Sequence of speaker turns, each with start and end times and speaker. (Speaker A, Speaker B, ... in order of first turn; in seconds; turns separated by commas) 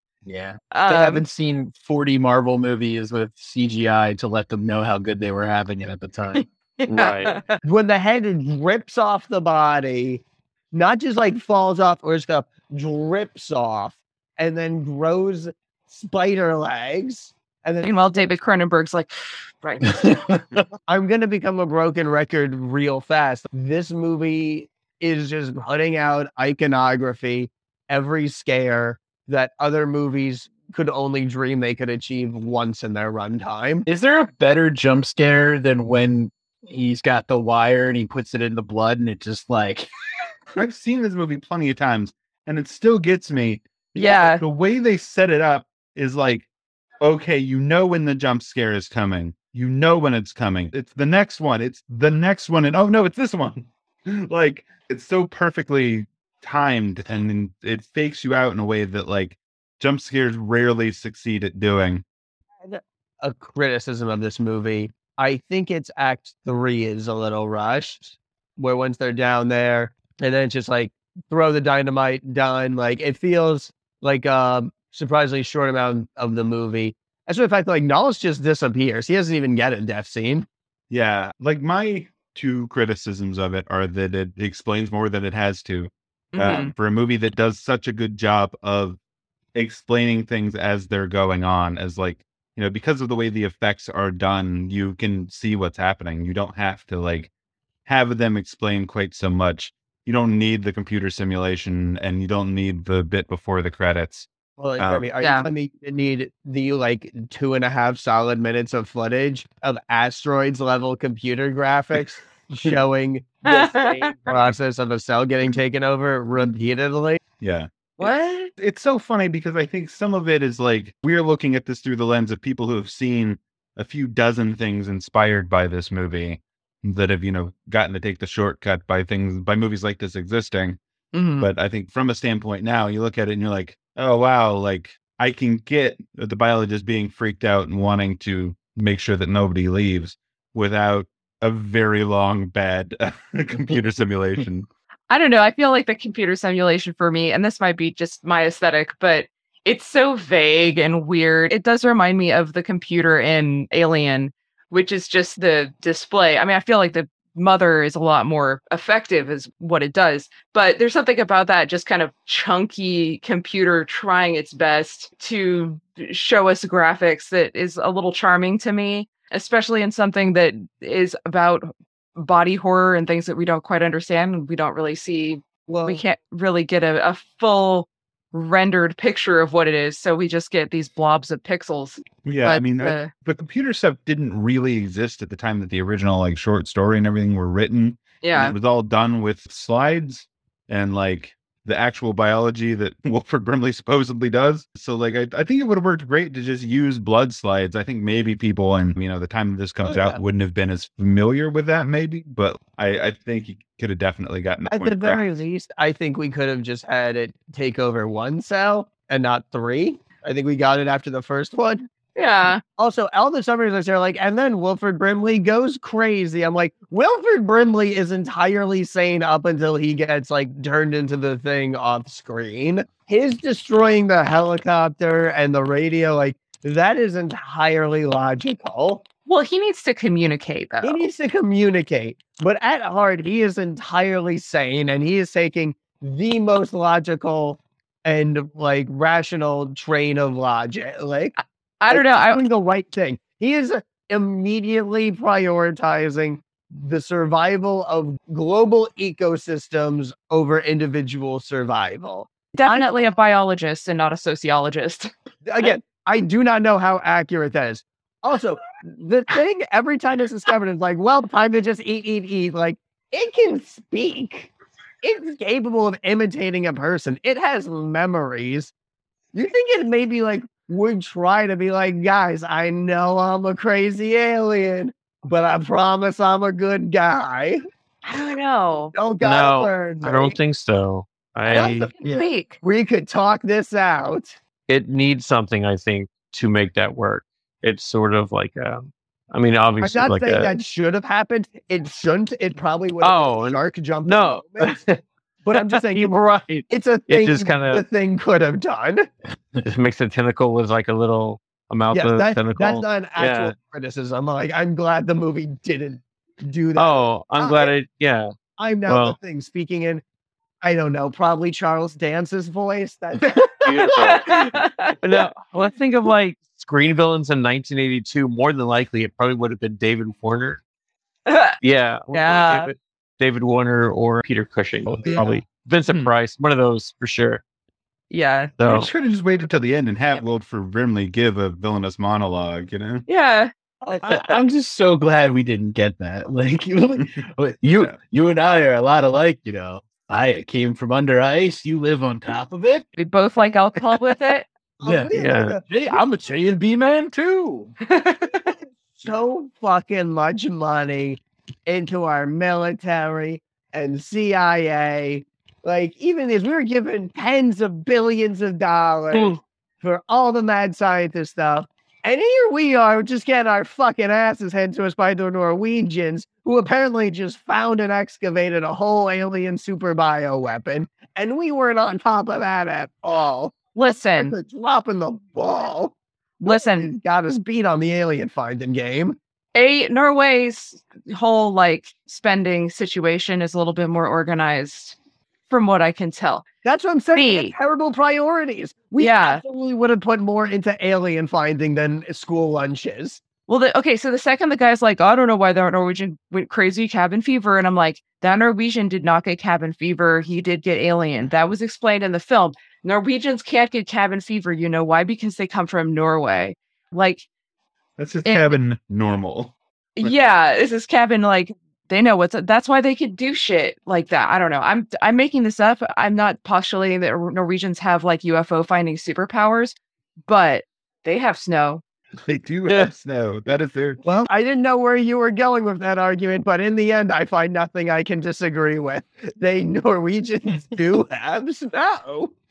Speaker A: 0.2-6.5, Speaker B: 0.7-1.2, Speaker B: 6.4-7.5, Speaker C: 6.9-7.5, Speaker D: 7.6-17.9, Speaker B: 17.8-20.1, Speaker A: 19.9-20.6, Speaker D: 20.9-33.9, Speaker A: 33.9-39.9, Speaker E: 40.6-46.5, Speaker B: 44.0-44.4, Speaker E: 47.0-62.0, Speaker D: 62.6-80.5, Speaker E: 80.9-89.0, Speaker B: 86.3-86.7, Speaker E: 89.5-97.3, Speaker E: 97.9-105.1, Speaker D: 104.6-117.2, Speaker B: 105.2-105.5, Speaker B: 113.5-114.4, Speaker E: 117.4-130.8, Speaker B: 118.0-118.5, Speaker B: 131.1-131.5, Speaker E: 131.4-144.7, Speaker B: 145.1-183.1, Speaker D: 175.7-176.0, Speaker E: 182.2-205.2, Speaker B: 188.2-188.6, Speaker D: 199.9-200.2, Speaker D: 204.7-211.9, Speaker B: 212.2-212.6, Speaker D: 212.8-229.0, Speaker B: 229.3-231.0, Speaker D: 230.8-241.3, Speaker B: 241.8-242.4, Speaker D: 241.9-252.9, Speaker B: 252.6-255.1, Speaker D: 255.4-268.7, Speaker D: 269.3-277.6, Speaker B: 278.1-278.9, Speaker D: 278.9-280.4, Speaker C: 279.2-281.9, Speaker D: 281.5-281.9, Speaker B: 281.5-282.6, Speaker A: 282.0-282.2, Speaker D: 282.6-284.4, Speaker C: 284.7-290.5, Speaker D: 289.8-294.8, Speaker C: 293.0-295.0, Speaker D: 295.4-296.1, Speaker C: 295.5-297.8, Speaker D: 296.7-299.1, Speaker C: 299.6-303.6, Speaker D: 301.9-307.7, Speaker C: 306.8-308.3, Speaker D: 308.6-310.0, Speaker C: 308.9-309.2, Speaker D: 310.6-314.5, Speaker C: 313.6-320.6, Speaker B: 313.8-315.0, Speaker B: 321.3-321.6, Speaker C: 321.6-327.4, Speaker B: 322.1-322.7, Speaker B: 328.1-328.6, Speaker C: 328.6-328.9, Speaker E: 328.7-333.1, Speaker B: 333.1-333.5, Speaker D: 333.8-334.2, Speaker A: 334.0-342.9, Speaker B: 343.0-344.5, Speaker D: 344.8-345.6, Speaker A: 344.8-347.7, Speaker C: 345.1-345.6, Speaker B: 347.9-348.5, Speaker D: 348.9-379.2, Speaker B: 373.8-374.4, Speaker B: 376.4-376.9, Speaker B: 379.6-385.0, Speaker B: 385.5-386.5, Speaker D: 386.6-393.2, Speaker B: 387.1-387.5, Speaker B: 389.0-389.4, Speaker B: 393.5-407.3, Speaker E: 408.0-410.2, Speaker B: 408.2-408.6, Speaker B: 410.0-421.8, Speaker E: 422.2-424.3, Speaker D: 424.0-432.3